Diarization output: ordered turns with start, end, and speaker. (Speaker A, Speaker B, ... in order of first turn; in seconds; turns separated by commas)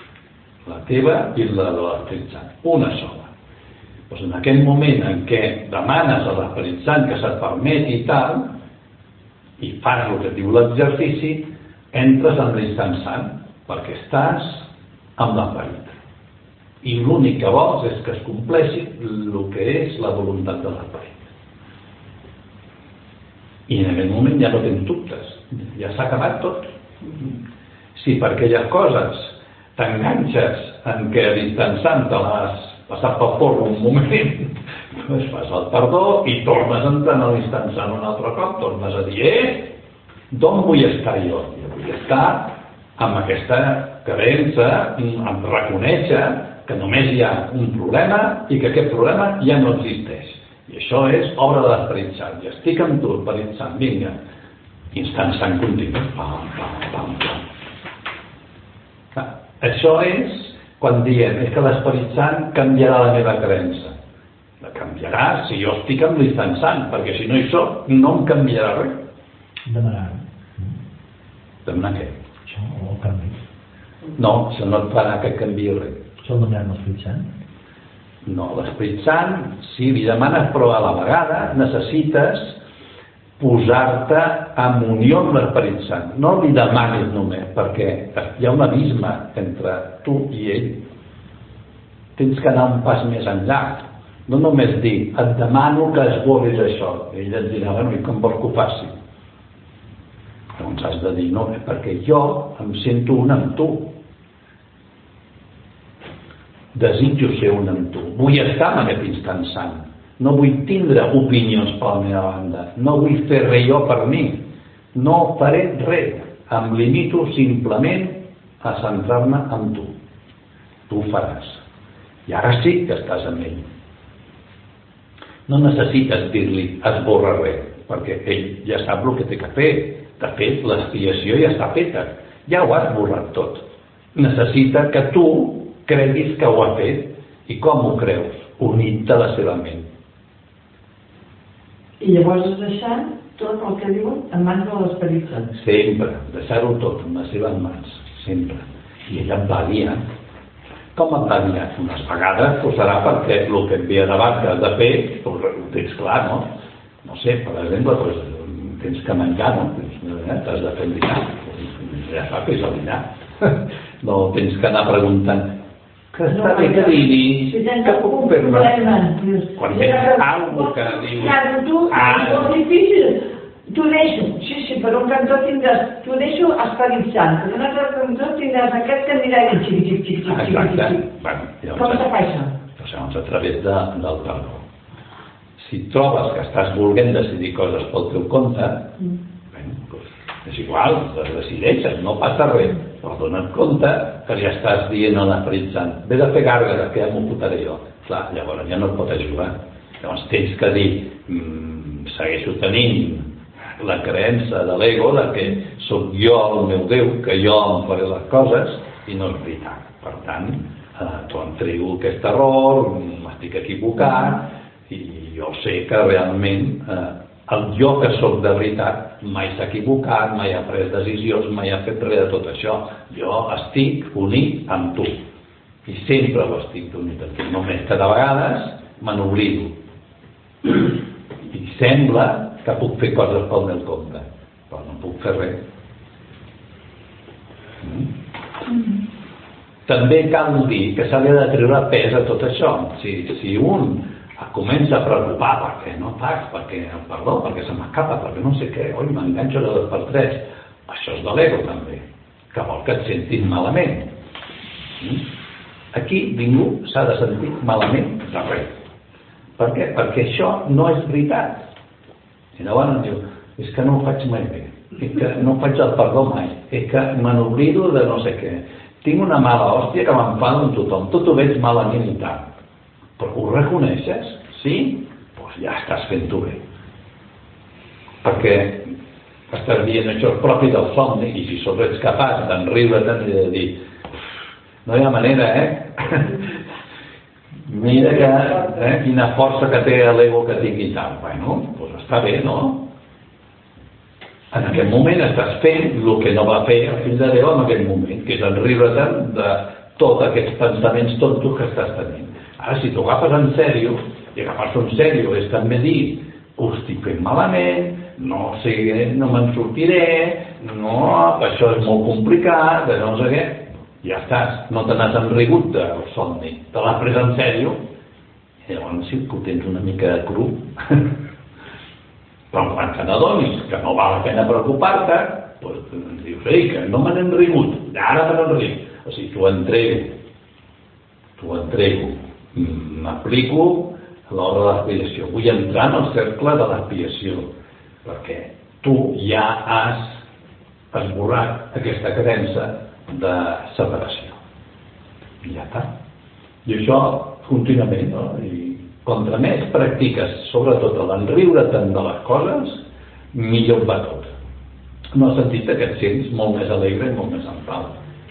Speaker A: 0.7-3.3, Speaker A: 4.1-8.5, Speaker A: 9.6-14.7, Speaker A: 15.2-15.9, Speaker A: 16.8-21.2, Speaker A: 23.7-27.4, Speaker A: 27.9-39.7, Speaker A: 40.3-54.2, Speaker A: 54.9-57.4, Speaker A: 59.1-64.0, Speaker A: 64.6-69.0, Speaker B: 69.7-70.8, Speaker A: 71.6-72.2, Speaker B: 72.5-73.4, Speaker A: 74.2-76.0, Speaker B: 76.2-77.3, Speaker A: 78.2-82.6, Speaker A: 83.4-90.8, Speaker A: 92.2-98.9, Speaker A: 100.6-103.9, Speaker A: 106.7-119.9, Speaker A: 120.9-121.6, Speaker A: 122.3-123.7, Speaker A: 125.5-133.6, Speaker A: 134.1-139.9, Speaker C: 142.0-145.5, Speaker A: 145.5-150.0, Speaker A: 150.9-156.5, Speaker A: 157.0-165.5, Speaker A: 166.1-169.0, Speaker C: 166.3-181.0, Speaker A: 169.6-172.5, Speaker A: 180.3-182.1, Speaker C: 181.8-182.5, Speaker A: 182.7-184.6, Speaker A: 185.6-188.9, Speaker A: 189.5-225.2, Speaker A: 225.8-229.8, Speaker A: 230.6-230.9, Speaker A: 231.5-235.6, Speaker A: 237.8-238.1, Speaker A: 239.8-254.1, Speaker A: 255.0-255.2, Speaker A: 255.9-258.7, Speaker A: 259.6-261.6, Speaker A: 262.5-272.5, Speaker A: 273.2-276.6, Speaker A: 278.2-278.9, Speaker A: 279.5-283.8, Speaker A: 284.8-286.5, Speaker A: 287.6-292.8, Speaker A: 294.5-317.8, Speaker A: 318.6-321.1, Speaker A: 322.5-330.1, Speaker A: 331.4-337.5, Speaker A: 338.0-340.2, Speaker A: 340.9-344.4, Speaker A: 345.4-345.9, Speaker A: 346.6-352.8, Speaker A: 353.3-354.3, Speaker A: 355.1-358.0